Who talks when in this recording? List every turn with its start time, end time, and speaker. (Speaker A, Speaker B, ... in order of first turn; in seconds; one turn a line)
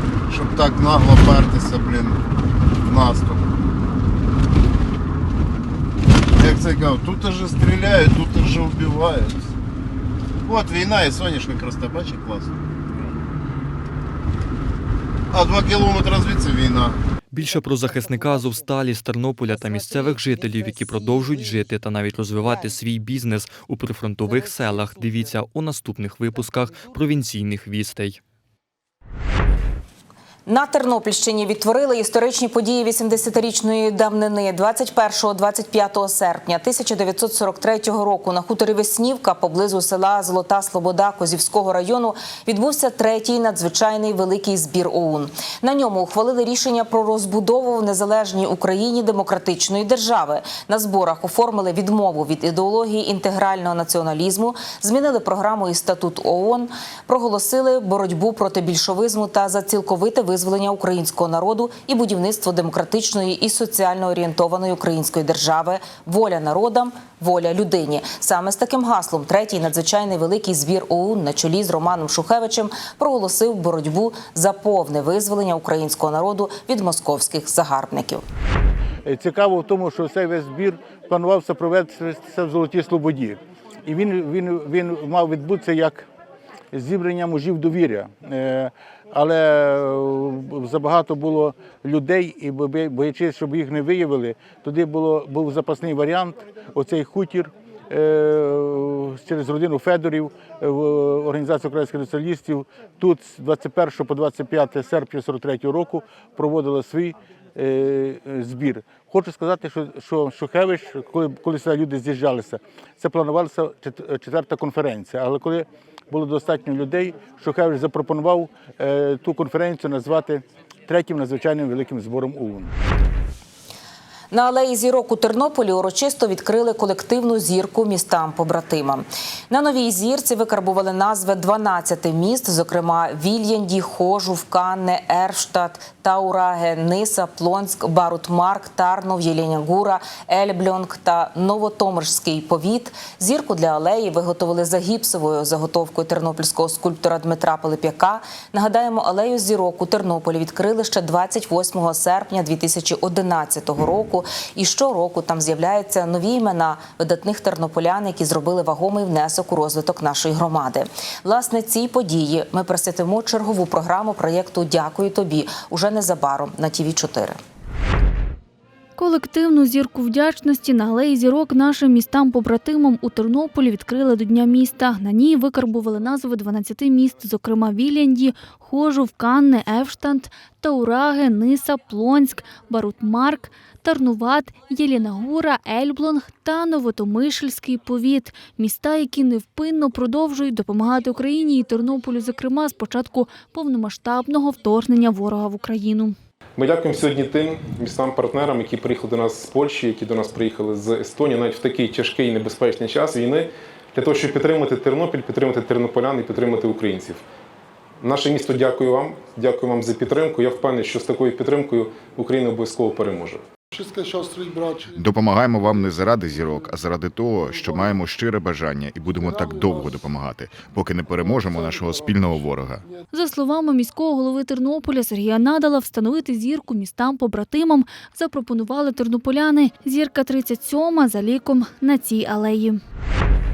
Speaker A: 0.3-2.2
Speaker A: 2.8-3.5
Speaker A: 6.3-9.5
Speaker A: 10.4-12.5
Speaker A: 15.3-17.0
Speaker B: 17.3-28.2
Speaker C: 30.5-78.2
Speaker D: 79.0-86.0
Speaker D: 86.7-122.7
Speaker C: 124.3-167.4
Speaker E: 169.0-196.2
Speaker F: 196.6-207.2
Speaker F: 208.0-213.4
Speaker G: 214.9-222.8
Speaker E: 223.1-232.8